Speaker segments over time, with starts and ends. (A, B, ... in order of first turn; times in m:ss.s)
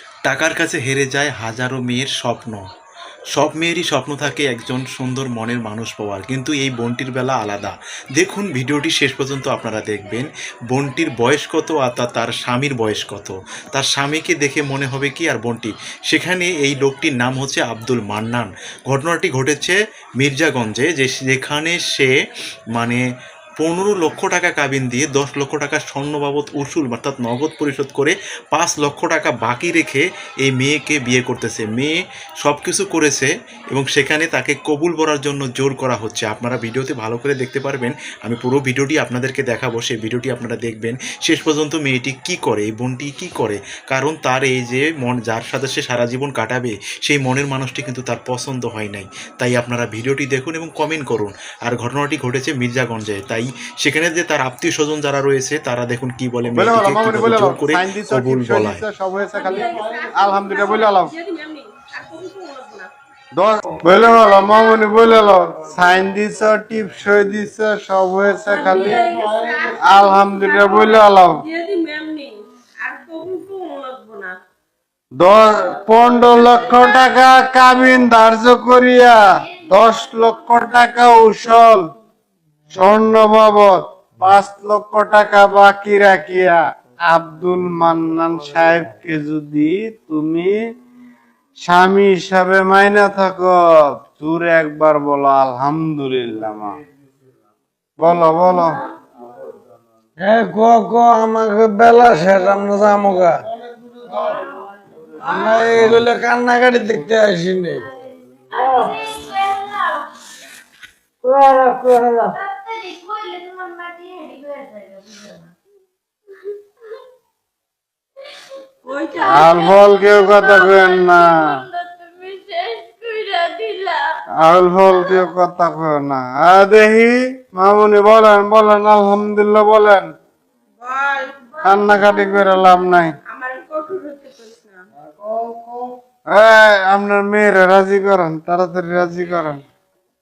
0:00.2-0:02.6 A
0:03.3-0:22.1 A
0:22.7-0:23.0 A
0:23.6-0:58.8 A
0:56.5-1:01.1 B
0:59.4-1:02.9 C
1:03.3-1:09.2 B
1:08.5-1:14.4 C
1:09.8-1:11.4 B
1:15.2-1:21.9 B
1:22.7-1:30.6 B
1:31.6-1:36.8 B
1:38.0-1:38.8 B
1:40.2-1:43.4 D
1:44.1-1:44.4 D
1:45.2-1:45.8 C
1:45.2-1:47.9 D
1:48.5-1:50.0 E
1:51.2-1:52.3 D
1:52.4-1:55.4 E
1:58.8-2:04.0 C
1:59.2-2:01.6 B
2:01.8-2:03.8 E
2:04.4-2:10.1 B
2:10.8-2:12.6 C
2:11.6-2:13.2 B
2:13.2-2:14.8 C
2:16.3-2:19.6 B